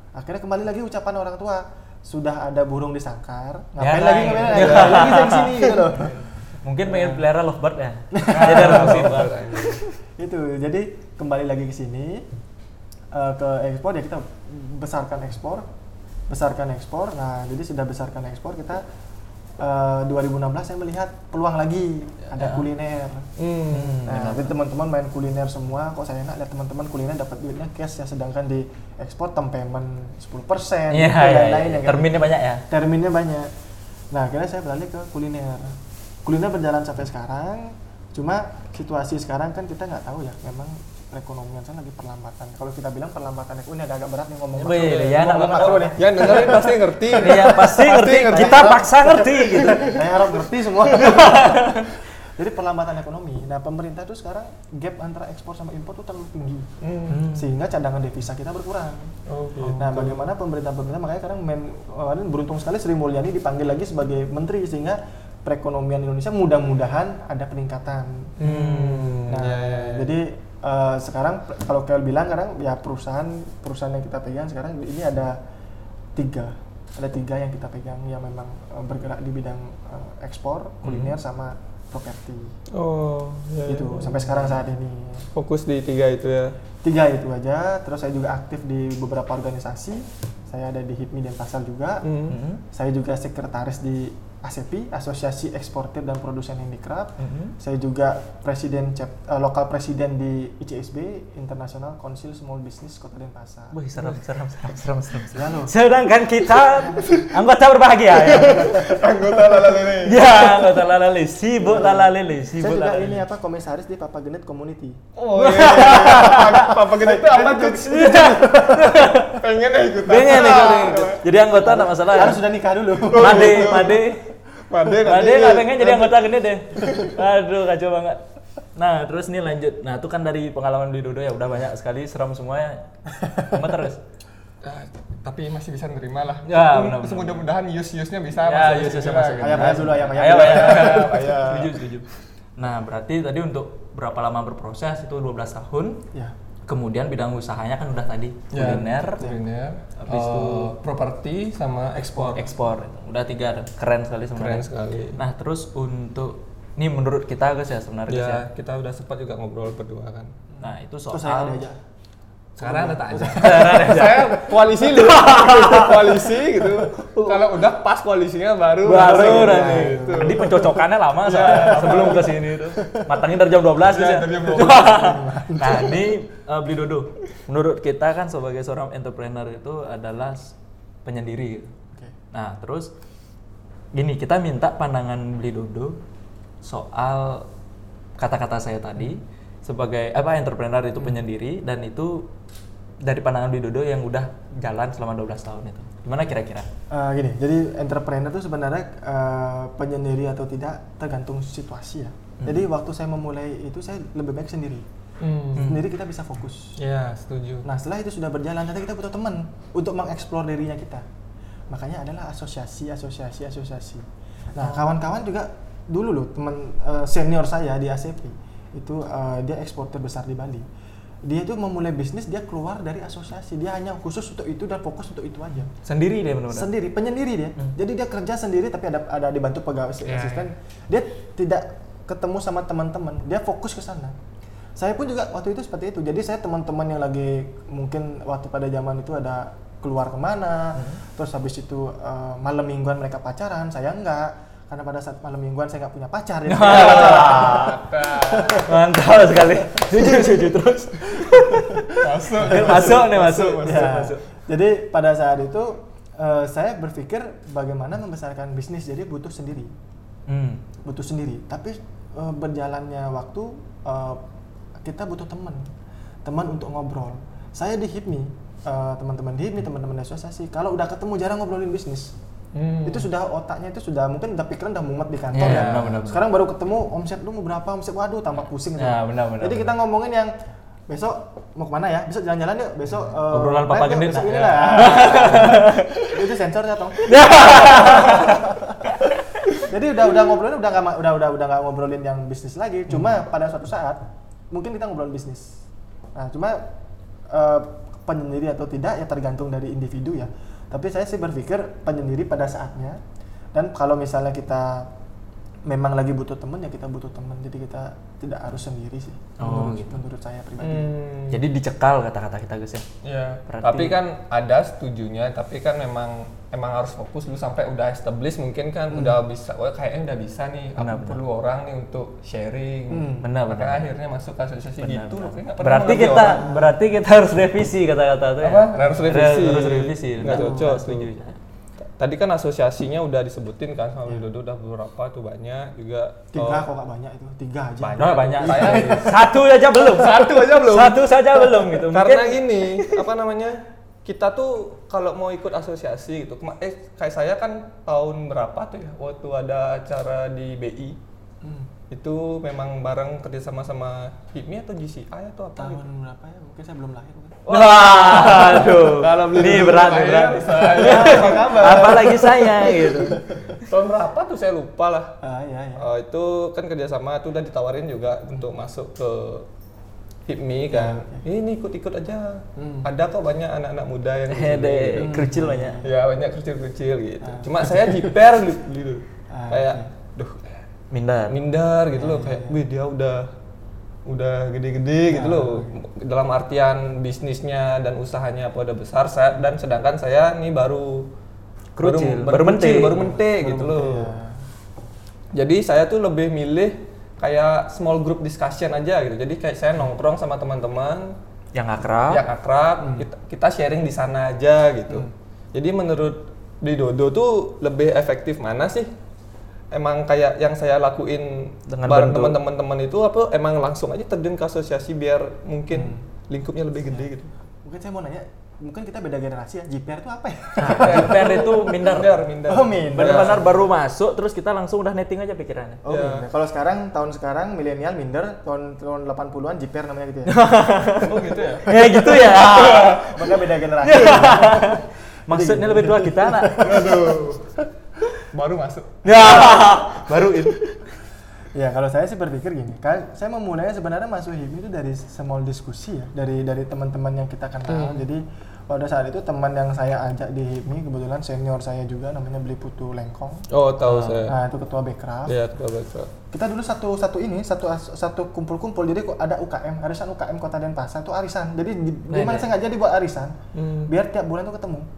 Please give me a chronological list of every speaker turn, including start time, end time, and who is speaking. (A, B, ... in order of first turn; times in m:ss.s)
0:00.2-0:06.2 A
0:03.8-0:09.5 B
0:04.5-0:05.6 C
0:06.9-0:07.2 A
0:08.1-0:12.3 A
0:08.3-0:09.8 C
0:13.1-0:15.7 A
0:16.3-0:18.8 A
0:19.6-0:23.3 A
0:22.4-0:22.7 B
0:23.4-0:24.0 C
0:23.7-0:24.5 B
0:24.0-0:33.5 A
0:30.9-0:32.6 B
0:34.1-0:56.7 A
0:44.6-0:46.6 B
0:44.7-0:48.8 C
0:47.2-0:49.9 B
0:50.9-0:51.9 B
0:56.8-0:57.2 C
0:57.1-0:57.5 B
0:57.3-0:59.1 A
0:59.3-1:00.3 C
0:59.7-1:08.4 A
1:08.4-1:10.2 C
1:08.4-1:09.2 B
1:09.3-1:15.4 A
1:16.2-1:22.5 A
1:20.8-1:21.1 B
1:22.7-1:24.4 C
1:23.7-1:25.3 A
1:25.4-1:26.6 C
1:26.8-1:32.1 A
1:32.0-1:32.4 C
1:32.3-1:32.6 B
1:32.7-1:44.2 A
1:37.2-1:37.6 B
1:43.7-1:48.9 B
1:45.3-1:45.7 A
1:46.7-1:47.1 A
1:47.0-1:47.3 C
1:48.1-1:50.4 C
1:49.9-1:53.2 B
1:51.6-1:55.0 A
1:55.2-1:58.2 C
1:55.4-1:56.7 B
1:55.5-1:59.2 A
1:57.8-1:59.4 B
1:59.3-2:01.3 C
2:00.1-2:02.4 B
2:01.6-2:03.9 A
2:03.0-2:06.3 C
2:03.2-2:04.3 B
2:05.0-2:08.2 B
2:06.8-2:07.1 C
2:08.8-2:14.0 B
2:14.6-2:21.8 C
2:16.5-2:17.4 B
2:18.4-2:22.1 B
2:19.3-2:21.4 A
2:22.6-2:26.0 B
2:26.7-2:29.2 B
2:28.5-2:32.5 C
2:30.0-2:30.8 B
2:32.3-2:38.4 B
2:34.4-2:35.2 C
2:38.1-2:40.3 C
2:40.5-2:41.8 A
2:40.6-2:41.7 B
2:42.6-2:44.0 A
2:42.6-2:52.4 C
2:43.2-2:46.3 B
2:47.0-2:47.4 A
2:48.8-3:01.7 B
2:48.9-2:50.8 A
2:51.4-2:53.1 A
2:53.8-2:55.2 C
2:54.9-2:56.1 A
3:02.3-3:02.9 B
3:03.9-3:06.0 B
3:06.6-3:07.5 B
3:08.2-3:12.3 B
3:13.0-3:16.7 B
3:16.9-3:24.8 A
3:22.4-3:22.7 B
3:25.2-3:25.8 C
3:25.6-3:26.8 A
3:26.8-3:27.7 C
3:27.6-3:31.0 A
3:31.7-3:40.7 A
3:34.6-3:34.9 C
3:41.2-3:45.7 A
3:45.8-3:46.7 B
3:46.5-3:54.2 A
3:50.1-3:50.4 C
3:54.8-4:08.8 A
4:06.5-4:07.8 B
4:06.6-4:08.7 C
4:08.6-4:14.2 B
4:09.6-4:13.0 A
4:12.0-4:14.0 C
4:13.6-4:19.7 A
4:20.3-4:20.6 B
4:20.8-4:24.2 A
4:24.8-4:25.7 A
4:26.2-4:32.1 A
4:32.5-4:33.1 C
4:32.8-4:40.3 A
4:35.3-4:36.3 B
4:35.4-4:36.0 C
4:38.8-4:39.7 B
4:40.9-4:55.6 A
4:43.3-4:46.1 B
4:44.2-4:45.6 C
4:47.0-4:49.4 B
4:56.2-4:56.7 A
4:57.3-5:03.0 A
5:03.5-5:04.9 A
5:05.7-5:11.0 A
5:09.4-5:10.0 B
5:10.6-5:11.4 C
5:11.3-5:12.9 B
5:13.0-5:26.6 C
5:13.5-5:14.0 B
5:18.9-5:19.2 A
5:20.8-5:21.2 B
5:22.9-5:23.3 A
5:23.2-5:23.9 B
5:24.8-5:31.4 B
5:25.9-5:26.5 A
5:28.4-5:31.1 C
5:28.8-5:29.1 A
5:30.3-5:30.6 A
5:32.0-5:36.7 C
5:36.3-5:39.3 A
5:37.8-5:39.2 C
5:38.0-5:42.4 B
5:39.7-5:51.0 C
5:51.4-5:51.7 A
5:51.9-5:55.8 C
5:55.6-5:57.4 A
5:57.4-6:02.3 C
5:57.5-6:03.2 B
6:00.7-6:03.6 A
6:03.5-6:05.2 C
6:05.2-6:05.9 A
6:05.8-6:09.5 C
6:10.3-6:15.2 C
6:10.7-6:11.2 A
6:12.6-6:12.9 A
6:14.3-6:15.8 B
6:15.0-6:16.0 A
6:15.8-6:20.6 C
6:17.2-6:18.2 A
6:19.3-6:19.9 A
6:20.9-6:21.4 B
6:21.3-6:23.3 C
6:21.9-6:22.6 A
6:24.1-6:31.1 C
6:25.1-6:25.8 A
6:31.8-6:33.0 B
6:31.8-6:34.1 C
6:33.0-6:34.4 A
6:35.3-6:41.1 C
6:41.6-6:42.2 B
6:42.1-6:48.9 C
6:42.8-6:43.1 A
6:49.7-6:57.3 C
6:51.7-6:52.4 B
6:55.7-6:56.0 A
6:57.6-7:01.7 A
7:00.6-7:02.2 B
7:00.6-7:03.5 C
7:02.5-7:03.6 A
7:02.9-7:05.8 B
7:05.8-7:10.4 A
7:05.9-7:06.3 C
7:10.3-7:13.0 B
7:11.0-7:13.4 C
7:11.7-7:17.7 A
7:13.8-7:16.6 B
7:14.0-7:14.3 C
7:16.5-7:17.5 C
7:18.3-7:19.5 C
7:19.0-7:20.8 B
7:19.1-7:20.0 A
7:21.5-7:33.4 A
7:27.7-7:28.1 C
7:33.5-7:34.4 C
7:33.9-7:34.3 B
7:34.2-7:35.4 A
7:35.3-7:36.1 C
7:36.3-7:44.9 A
7:42.1-7:42.5 B
7:43.6-7:43.9 C